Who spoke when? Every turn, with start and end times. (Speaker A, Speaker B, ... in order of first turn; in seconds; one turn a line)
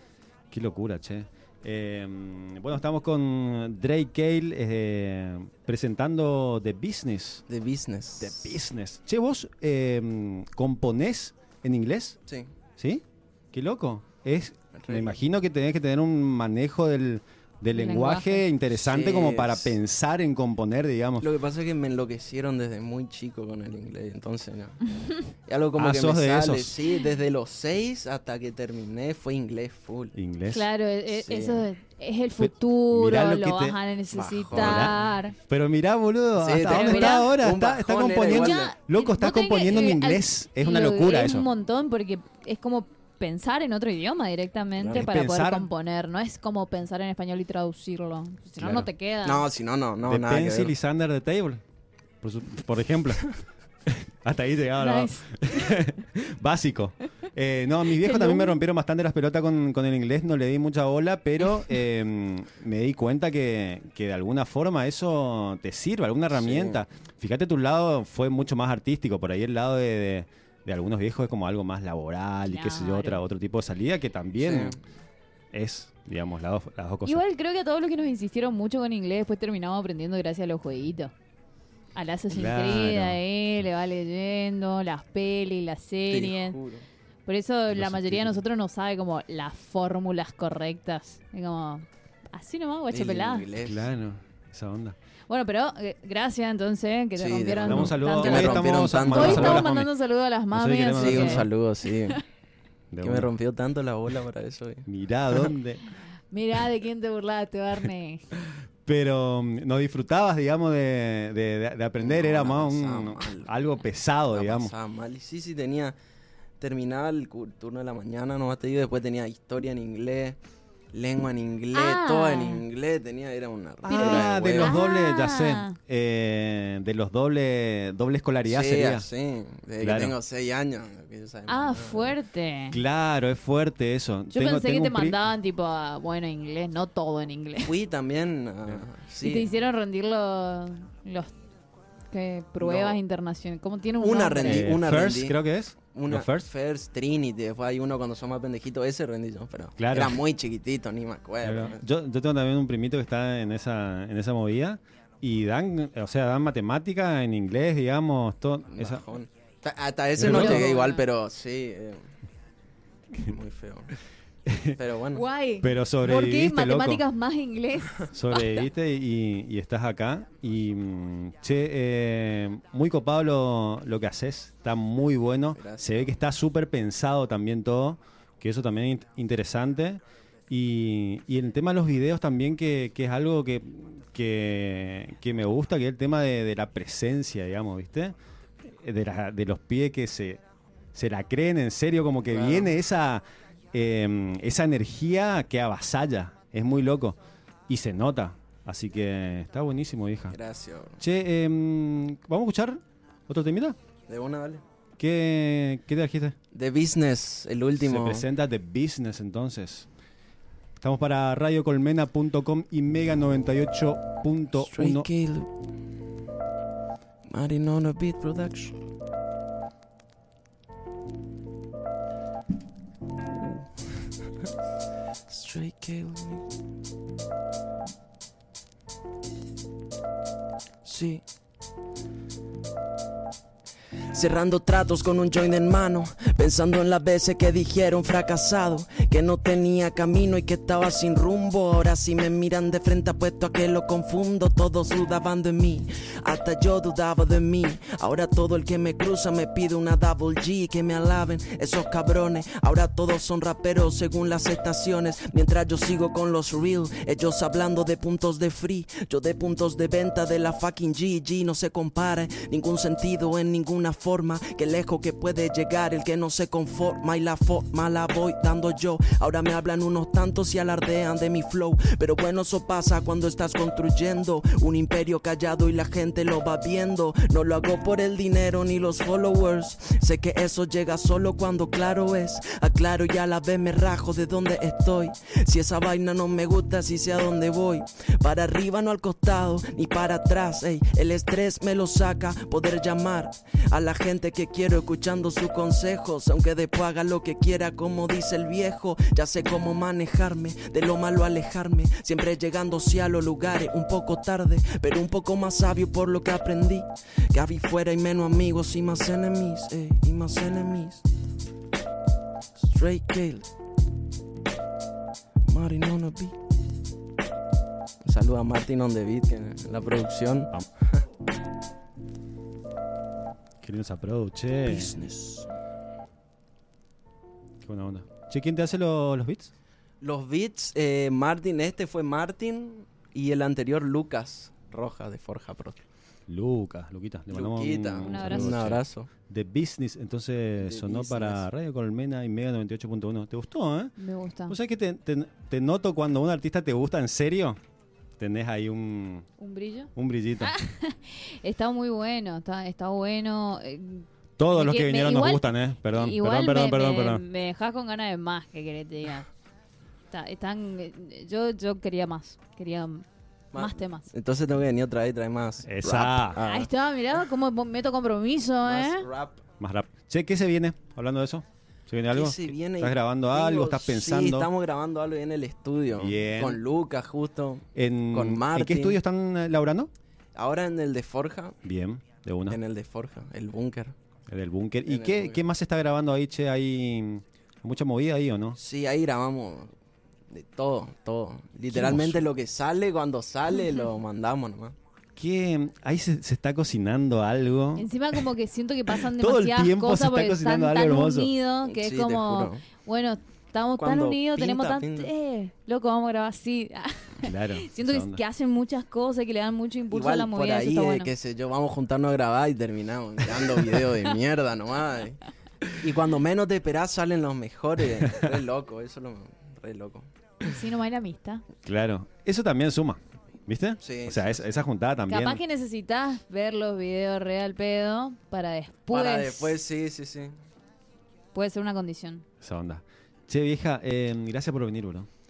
Speaker A: 0.5-7.4
Speaker B: 7.5-8.6
Speaker A: 8.2-12.2
Speaker B: 12.2-12.5
Speaker A: 12.8-21.3
Speaker B: 14.7-15.2
Speaker C: 17.7-18.4
Speaker B: 18.7-19.8
Speaker B: 21.2-24.9
Speaker B: 25.4-30.1
Speaker A: 25.8-26.8
Speaker A: 30.1-30.7
Speaker C: 30.5-35.3
Speaker B: 31.1-31.7
Speaker A: 32.4-33.8
Speaker B: 34.1-35.1
Speaker A: 34.5-41.5
Speaker B: 36.4-38.7
Speaker C: 36.6-37.4
Speaker C: 38.2-49.5
Speaker B: 44.8-45.1
Speaker A: 44.9-45.7
Speaker A: 48.6-48.9
Speaker B: 49.2-50.7
Speaker A: 50.0-51.6
Speaker A: 52.2-53.3
Speaker A: 53.9-74.7
Speaker C: 54.8-55.2
Speaker C: 58.0-58.6
Speaker B: 66.3-66.8
Speaker C: 72.5-73.2
Speaker B: 74.4-74.8
Speaker A: 75.5-77.2
Speaker C: 77.0-81.1
Speaker C: 81.9-86.6
Speaker A: 82.3-83.2
Speaker B: 86.1-86.8
Speaker C: 87.2-93.5
Speaker A: 87.7-88.4
Speaker B: 92.9-93.9
Speaker A: 93.6-95.0
Speaker C: 95.3-98.4
Speaker B: 97.1-99.7
Speaker A: 97.6-99.9
Speaker C: 99.1-102.2
Speaker A: 100.5-101.5
Speaker B: 100.9-102.2
Speaker A: 102.9-103.3
Speaker B: 103.0-105.5
Speaker A: 104.9-105.8
Speaker C: 106.3-108.2
Speaker A: 108.8-114.7
Speaker B: 112.0-113.5
Speaker B: 114.3-116.0
Speaker B: 116.6-120.4
Speaker B: 120.9-124.8
Speaker C: 121.7-122.6
Speaker A: 123.8-129.1
Speaker C: 123.9-125.8
Speaker B: 128.4-132.2
Speaker A: 129.8-130.1
Speaker C: 131.5-132.8
Speaker A: 132.7-135.2
Speaker C: 134.3-137.7
Speaker B: 137.6-139.6
Speaker C: 139.2-141.3
Speaker C: 142.1-144.7
Speaker B: 142.6-143.0
Speaker B: 144.0-145.4
Speaker A: 144.4-146.5
Speaker B: 145.9-151.8
Speaker A: 149.8-150.2
Speaker A: 151.4-159.1
Speaker B: 158.7-162.0
Speaker A: 160.2-160.7
Speaker C: 160.2-161.0
Speaker B: 163.2-163.9
Speaker A: 164.5-164.8
Speaker B: 164.7-165.3
Speaker C: 165.1-168.5
Speaker A: 165.6-167.0
Speaker A: 168.1-190.4
Speaker B: 175.5-176.1
Speaker A: 190.9-197.2
Speaker B: 192.3-192.7
Speaker A: 197.7-200.4
Speaker B: 200.3-201.0
Speaker A: 201.0-203.8
Speaker B: 204.1-204.6
Speaker A: 205.0-206.3
Speaker B: 206.5-208.3
Speaker A: 207.8-209.9
Speaker A: 210.8-215.1
Speaker B: 214.6-215.5
Speaker B: 217.3-218.8
Speaker B: 223.4-223.9
Speaker B: 225.3-226.5
Speaker B: 230.8-231.2
Speaker B: 234.1-311.0
Speaker B: 312.6-313.5
Speaker B: 315.5-316.4
Speaker B: 318.0-320.6
Speaker A: 323.6-325.0
Speaker B: 324.6-325.5
Speaker A: 327.6-329.5
Speaker B: 330.0-335.8
Speaker A: 336.3-343.9
Speaker B: 337.3-339.1
Speaker C: 338.0-338.8
Speaker B: 340.6-341.5
Speaker C: 344.0-344.6
Speaker A: 344.5-347.6
Speaker A: 348.2-349.2
Speaker C: 349.4-359.3
Speaker A: 349.9-350.5
Speaker A: 354.4-357.2
Speaker C: 360.1-363.1
Speaker B: 363.5-366.7
Speaker C: 363.6-364.1
Speaker A: 365.6-366.4
Speaker C: 366.4-369.1
Speaker B: 368.6-369.4
Speaker A: 369.6-374.5
Speaker B: 372.1-379.0
Speaker A: 375.9-376.6
Speaker A: 377.8-379.9
Speaker B: 380.3-381.6
Speaker A: 381.6-382.6
Speaker B: 382.5-383.9
Speaker A: 384.3-388.6
Speaker B: 384.9-385.4
Speaker B: 388.6-389.7
Speaker B: 390.3-394.7
Speaker A: 391.7-392.3
Speaker A: 395.1-398.2
Speaker C: 397.8-411.1
Speaker A: 399.0-401.3
Speaker B: 401.6-402.7
Speaker B: 403.8-405.1
Speaker A: 407.2-408.2
Speaker B: 409.9-415.2
Speaker B: 415.7-420.1
Speaker C: 420.4-421.4
Speaker A: 421.6-425.4
Speaker B: 423.8-424.4
Speaker C: 425.1-429.6
Speaker B: 428.9-430.3
Speaker C: 431.3-432.2
Speaker A: 432.4-435.1